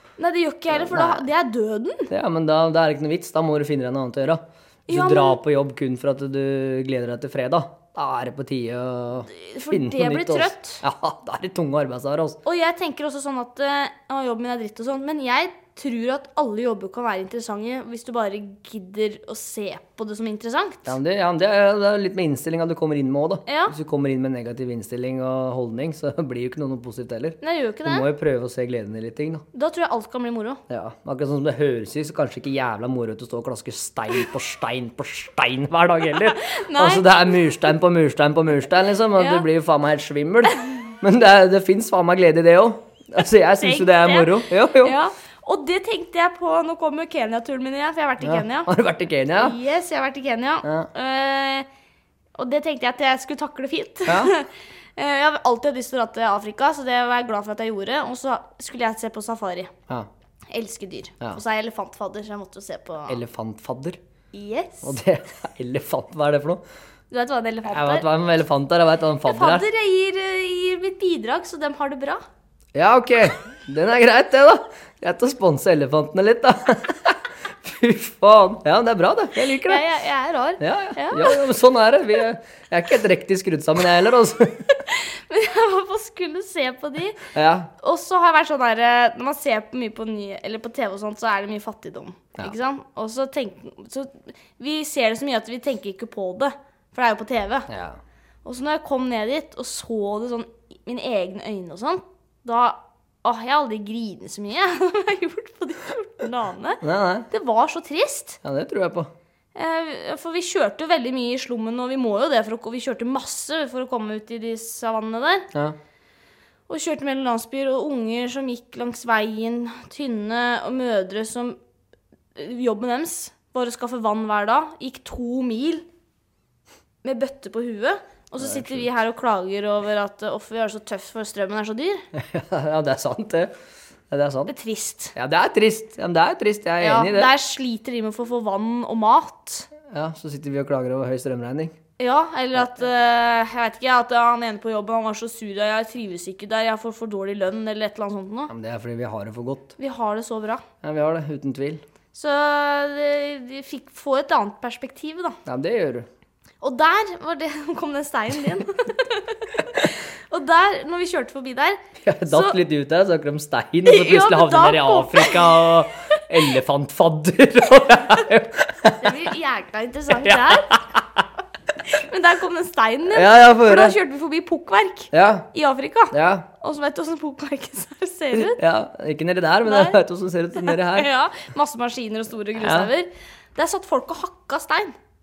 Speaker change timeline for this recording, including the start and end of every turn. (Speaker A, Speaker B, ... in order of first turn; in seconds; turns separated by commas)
Speaker A: 0.2-2.1, Speaker B: 0.7-1.2, Speaker B: 2.1-12.4, Speaker A: 4.9-5.4, Speaker A: 9.3-10.8, Speaker A: 12.4-20.9, Speaker B: 20.9-29.4, Speaker A: 23.4-23.8, Speaker A: 27.4-28.1, Speaker A: 29.5-30.6, Speaker B: 30.7-45.0, Speaker A: 36.2-37.1, Speaker A: 39.2-39.4, Speaker A: 43.5-48.7, Speaker B: 48.2-49.6, Speaker A: 49.4-51.7, Speaker B: 50.6-50.9, Speaker A: 52.4-59.7, Speaker B: 54.1-54.3, Speaker A: 60.5-63.2, Speaker B: 63.1-64.0, Speaker A: 64.3-64.9, Speaker B: 64.8-66.6, Speaker A: 67.1-68.1, Speaker B: 67.7-69.7, Speaker A: 69.2-72.2, Speaker B: 72.8-79.8, Speaker A: 79.5-81.4, Speaker B: 80.6-84.8, Speaker A: 84.8-87.3, Speaker B: 87.3-87.7, Speaker A: 87.8-97.7, Speaker B: 97.7-98.0, Speaker A: 98.4-108.4, Speaker B: 106.8-107.3, Speaker B: 108.4-109.1, Speaker A: 109.5-115.5, Speaker A: 116.7-121.6, Speaker A: 122.3-125.8, Speaker A: 127.0-132.1, Speaker B: 128.4-128.9, Speaker B: 132.1-133.5, Speaker B: 134.1-134.5, Speaker A: 134.5-135.1, Speaker B: 135.2-137.3, Speaker A: 136.8-139.7, Speaker B: 139.9-141.8, Speaker A: 142.0-148.5, Speaker B: 148.5-149.8, Speaker A: 149.8-150.7, Speaker B: 150.8-151.8, Speaker A: 152.1-155.4, Speaker B: 155.4-156.1, Speaker A: 156.6-162.6, Speaker B: 162.0-169.3, Speaker A: 163.8-165.7, Speaker A: 169.0-170.7, Speaker B: 170.1-171.2, Speaker A: 171.8-178.6, Speaker B: 173.1-174.0, Speaker B: 175.1-175.5, Speaker B: 176.1-176.5, Speaker B: 178.3-181.1, Speaker A: 179.7-180.0, Speaker A: 180.6-184.9, Speaker B: 182.6-182.9